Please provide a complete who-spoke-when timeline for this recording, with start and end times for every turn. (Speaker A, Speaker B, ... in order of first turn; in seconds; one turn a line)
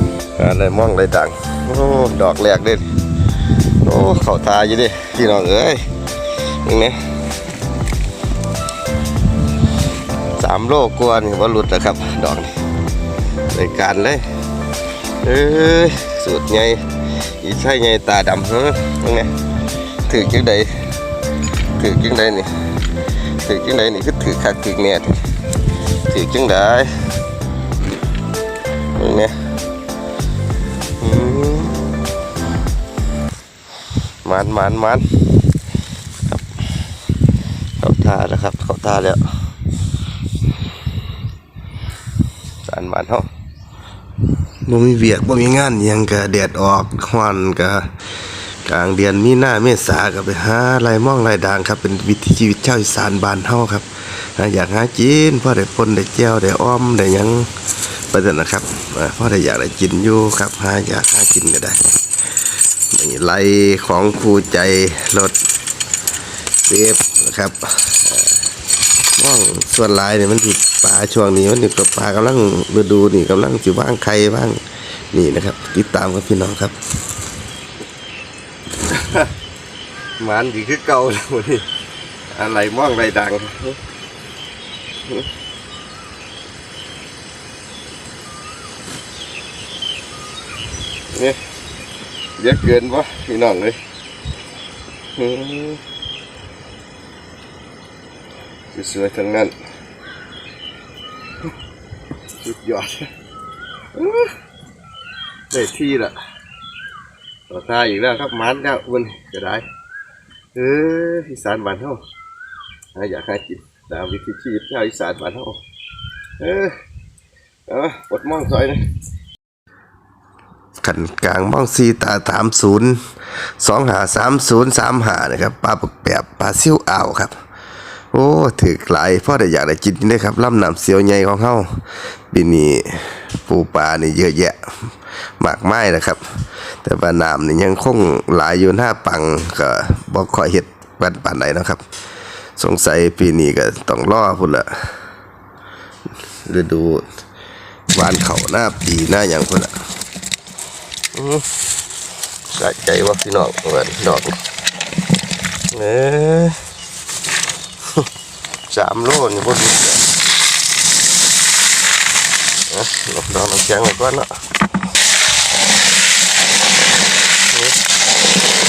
Speaker A: 0.4-7.1
Speaker A: 10.4-12.6
Speaker A: 13.5-14.3
Speaker A: 15.2-19.3
Speaker A: 20.0-20.9
Speaker A: 21.8-25.3
Speaker A: 26.0-27.0
Speaker A: 28.9-29.4
Speaker A: 31.0-31.8
Speaker A: 34.2-35.5
Speaker A: 37.8-39.5
Speaker A: 42.7-43.3
Speaker A: 44.6-61.9
Speaker A: 62.9-65.3
Speaker A: 66.7-68.4
Speaker A: 69.2-76.8
Speaker A: 78.9-79.3
Speaker A: 80.2-81.7
Speaker A: 82.3-83.8
Speaker A: 91.1-91.4
Speaker A: 92.4-93.8
Speaker A: 95.2-95.8
Speaker A: 98.7-99.5
Speaker A: 102.4-103.1
Speaker A: 103.9-104.3
Speaker A: 105.5-106.2
Speaker A: 107.5-109.7
Speaker A: 110.5-112.0
Speaker A: 112.9-115.6
Speaker A: 116.4-116.7
Speaker A: 117.7-118.8
Speaker A: 120.8-127.3
Speaker A: 128.1-141.8
Speaker A: 142.6-145.0
Speaker A: 146.4-147.0
Speaker A: 147.9-149.8
Speaker A: 151.1-151.4
Speaker A: 152.5-154.4
Speaker A: 155.7-156.6
Speaker A: 158.7-160.1
Speaker A: 162.7-164.4
Speaker A: 167.5-167.8